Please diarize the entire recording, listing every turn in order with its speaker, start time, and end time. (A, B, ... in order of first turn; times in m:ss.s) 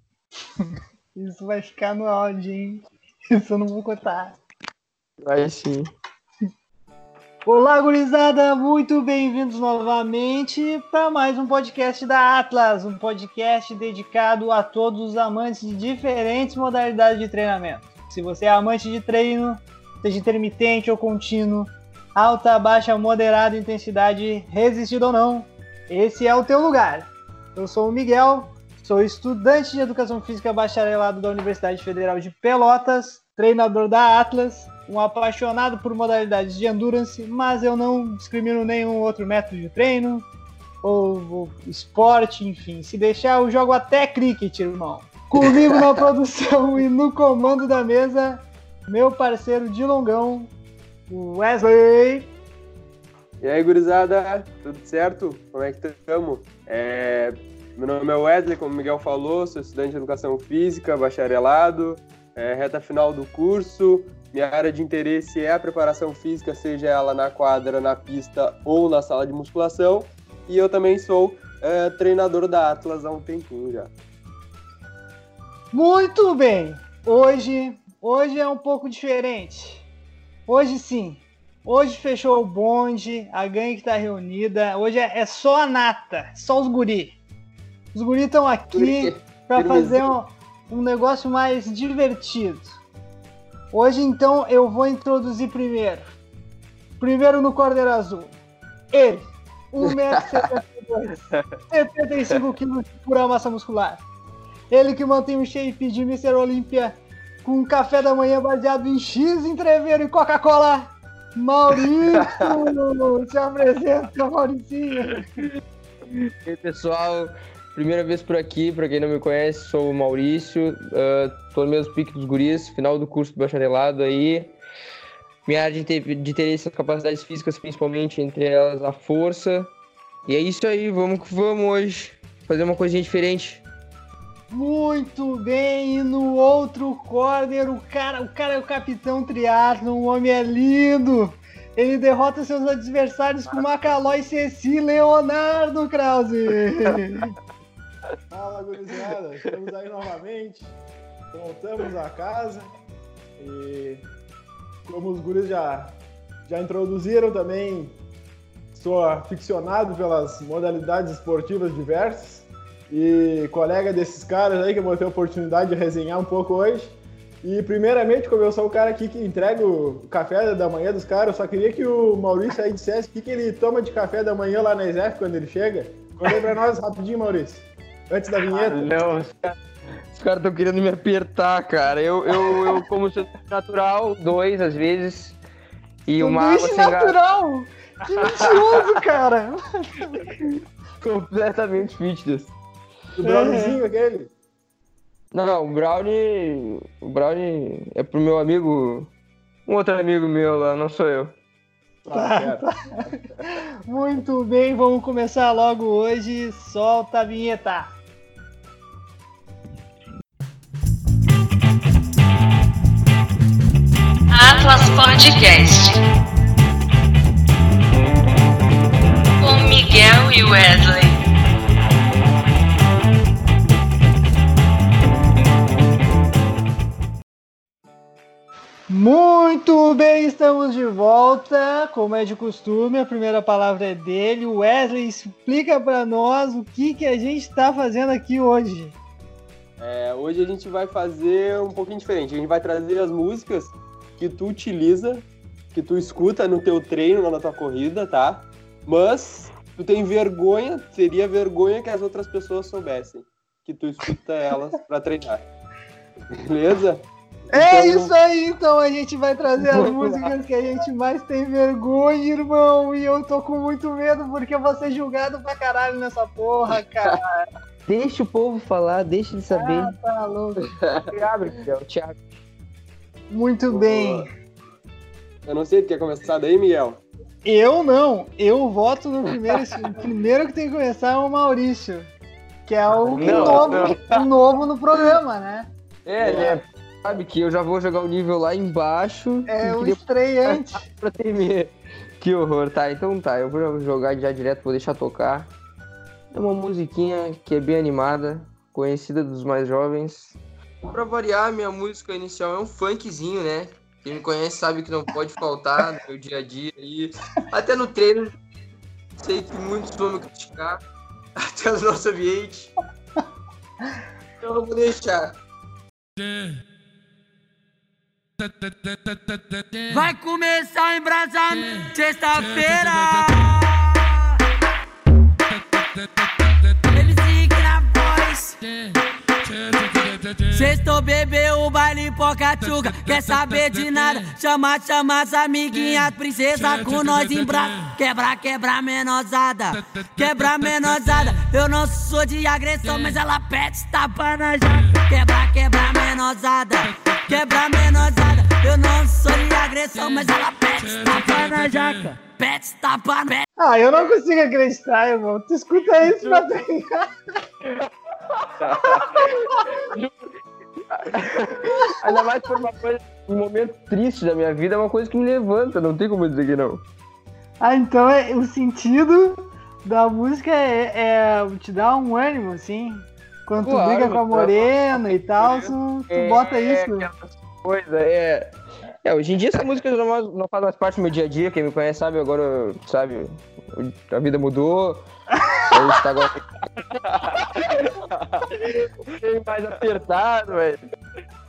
0:00.6-0:04.4 A
0:05.2-0:05.9 B
0:07.4-0:40.2 A
0:40.8-0:50.5 A
0:45.4-0:45.7 B
0:51.1-0:52.3 A
0:53.4-1:13.9 C
1:15.7-1:19.8 A
1:20.5-1:27.2 A
1:27.9-1:32.8 A
1:28.7-1:30.1 C
1:33.7-1:36.1 A
1:37.0-1:38.4 A
1:38.9-1:44.0 A
1:44.7-1:55.2 A
1:56.4-2:04.5 B
2:05.4-2:09.7 B
2:10.3-2:13.6 B
2:14.5-2:27.3 A
2:28.3-2:30.7 D
2:31.3-2:32.7 D
2:33.4-2:34.0 D
2:34.8-2:37.9 D
2:38.7-2:58.9 D
2:58.5-2:59.6 B
3:00.1-3:05.4 B
3:06.1-3:07.2 B
3:06.2-3:10.2 A
3:11.0-3:12.5 B
3:13.1-3:14.3 D
3:13.2-3:13.8 A
3:15.3-3:19.1 B
3:19.7-3:21.3 B
3:22.0-3:22.7 D
3:22.1-3:22.7 A
3:23.9-3:27.9 A
3:34.3-3:36.0 E
3:39.4-3:41.2 E
3:48.9-3:59.0 A
3:59.8-4:15.4 C
4:16.3-4:18.1 C
4:17.5-4:27.4 A
4:19.6-4:20.3 B
4:27.9-4:29.9 B
4:29.5-4:30.7 A
4:31.1-4:32.2 B
4:33.3-4:34.3 A
4:33.7-4:34.3 C
4:35.4-4:37.0 C
4:37.4-4:42.1 A
4:42.7-4:45.7 A
4:43.1-4:44.1 B
4:43.2-4:43.7 C
4:46.0-4:55.5 B
4:49.5-4:50.8 A
4:56.3-5:00.4 B
5:00.9-5:08.3 B
5:09.2-5:10.8 B
5:11.4-5:12.7 B
5:14.4-5:15.4 B
5:19.9-5:24.0 F
5:26.9-5:28.6 F
5:30.4-5:53.4 F
5:53.6-5:57.1 A
5:55.7-5:56.5 C
5:58.6-5:59.2 C
5:59.2-5:59.7 A
5:59.9-6:00.3 B
6:00.9-6:06.8 B
6:01.7-6:02.2 A
6:07.6-6:17.1 A
6:13.6-6:14.7 B
6:15.3-6:15.7 C
6:16.1-6:18.5 B
6:19.0-6:25.0 B
6:25.4-6:25.6 A
6:25.7-6:26.4 B
6:27.1-6:27.9 B
6:28.2-6:28.4 C
6:28.6-6:30.8 B